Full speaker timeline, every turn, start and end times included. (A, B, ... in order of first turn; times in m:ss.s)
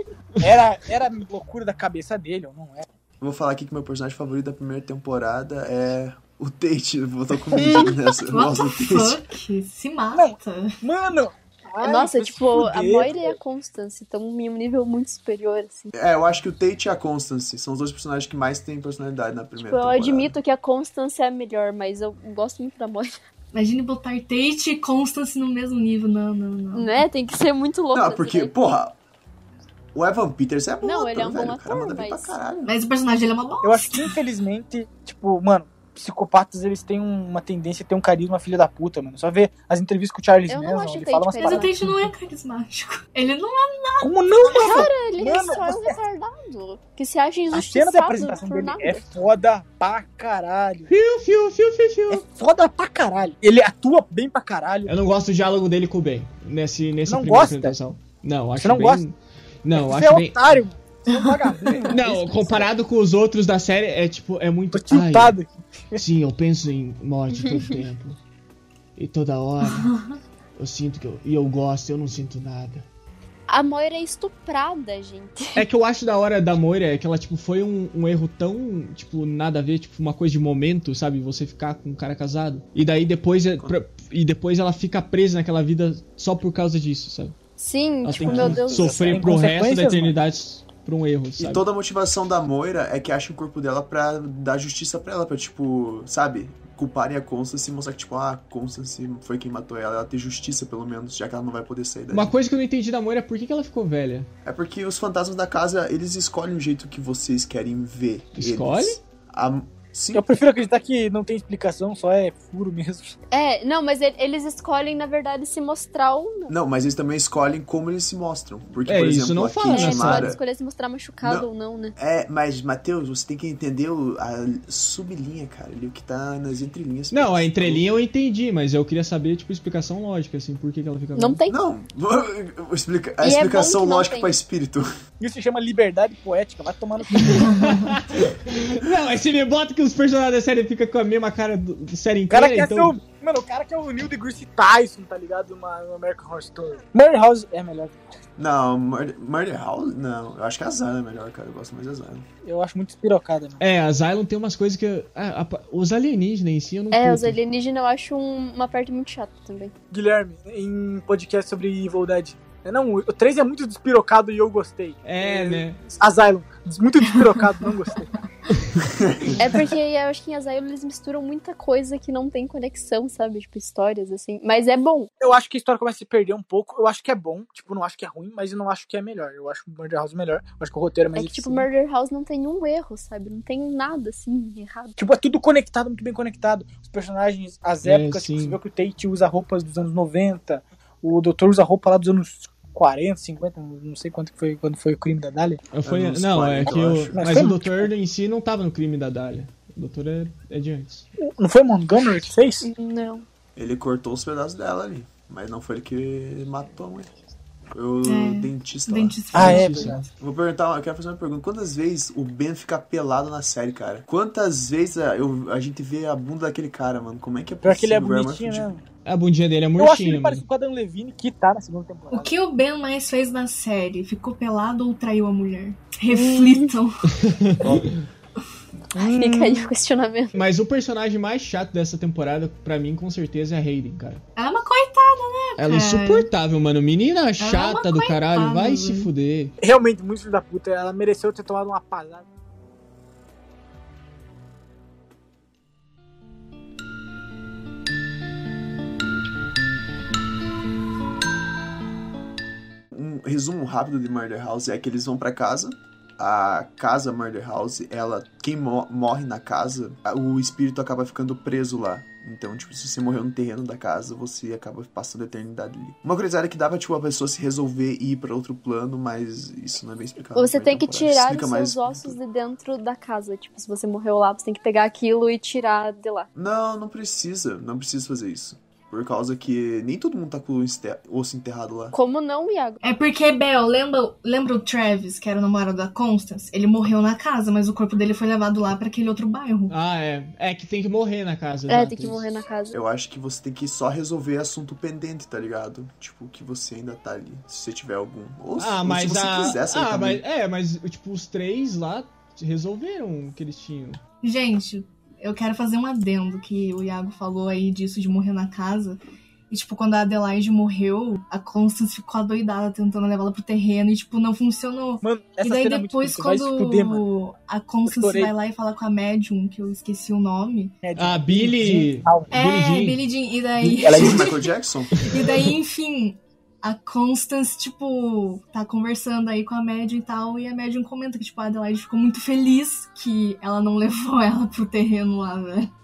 0:00.4-0:02.9 A
0:03.2-0:09.2 B
0:08.3-0:10.8 C
0:10.1-0:13.4 A
0:11.8-0:15.9 D
0:15.9-0:20.3 B
0:19.6-0:23.2 D
0:23.5-0:27.0 C
0:26.7-0:28.5 D
0:27.9-0:29.0 B
0:29.9-0:32.8 B
0:30.8-0:32.4 D
0:32.6-0:34.1 C
0:33.6-0:41.7 A
0:40.5-0:41.7 D
0:41.4-0:44.8 C
0:44.0-0:46.0 A
0:44.5-0:49.0 D
0:47.5-0:50.9 A
0:50.9-0:52.2 E
0:52.1-0:54.9 A
0:54.9-1:00.6 E
0:57.1-0:57.8 A
0:58.6-0:59.0 A
0:59.7-1:02.7 A
1:01.9-1:05.4 E
1:04.7-1:06.0 A
1:05.9-1:08.2 E
1:09.0-1:09.9 E
1:09.6-1:10.2 C
1:10.6-1:12.9 E
1:13.5-1:15.6 D
1:15.6-1:27.4 E
1:27.6-1:29.1 D
1:28.0-1:31.6 E
1:28.2-1:30.2 A
1:31.4-1:42.3 B
1:42.1-1:44.3 E
1:44.4-1:50.2 B
1:48.3-1:49.0 E
1:50.1-1:53.2 A
1:53.3-1:56.5 D
1:56.5-2:00.4 B
1:58.8-2:00.4 E
1:59.7-2:01.9 D
2:01.2-2:07.9 B
2:07.1-2:11.4 E
2:11.2-2:11.6 D
2:11.5-2:14.9 B
2:13.2-2:14.3 D
2:15.2-2:17.6 A
2:17.1-2:23.0 E
2:17.5-2:17.8 C
2:22.3-2:28.0 A
2:28.4-2:32.2 B
2:32.4-2:33.6 A
2:33.6-2:37.4 E
2:36.9-2:39.7 D
2:39.9-2:48.1 A
2:45.0-2:45.8 E
2:49.0-2:49.4 B
2:49.4-2:55.1 D
2:55.2-3:01.6 A
3:01.1-3:05.0 D
3:05.0-3:15.6 A
3:07.8-3:08.6 E
3:15.7-3:21.1 E
3:15.8-3:17.2 B
3:16.6-3:17.9 A
3:21.2-3:22.7 A
3:22.6-3:23.2 D
3:23.6-3:27.1 B
3:27.7-3:29.5 B
3:28.0-3:30.1 C
3:29.3-3:30.0 A
3:29.3-3:30.0 E
3:30.2-3:38.7 B
3:37.6-3:38.8 A
3:39.0-3:40.4 E
3:39.8-3:42.3 A
3:42.1-3:47.0 C
3:46.1-3:46.7 D
3:47.2-3:48.0 E
3:47.6-3:48.0 B
3:48.9-3:49.7 A
3:49.0-3:50.4 D
3:50.3-3:54.2 E
3:54.4-3:56.3 C
3:55.6-3:59.5 E
3:57.4-3:59.1 C
3:59.6-4:02.2 A
4:12.9-4:32.2 B
4:30.4-4:36.3 D
4:36.3-4:41.9 B
4:41.9-4:42.8 D
4:42.8-4:49.7 C
4:49.7-4:52.2 E
4:51.7-4:52.8 D
4:52.7-5:00.2 B
4:58.6-5:04.0 E
5:04.2-5:20.8 C
5:15.0-5:17.0 A
5:17.8-5:18.3 A
5:20.8-5:22.3 A
5:21.0-5:23.0 E
5:22.3-5:24.5 C
5:23.6-5:24.3 A
5:23.9-5:25.0 B
5:25.0-5:25.4 E
5:25.0-5:35.7 C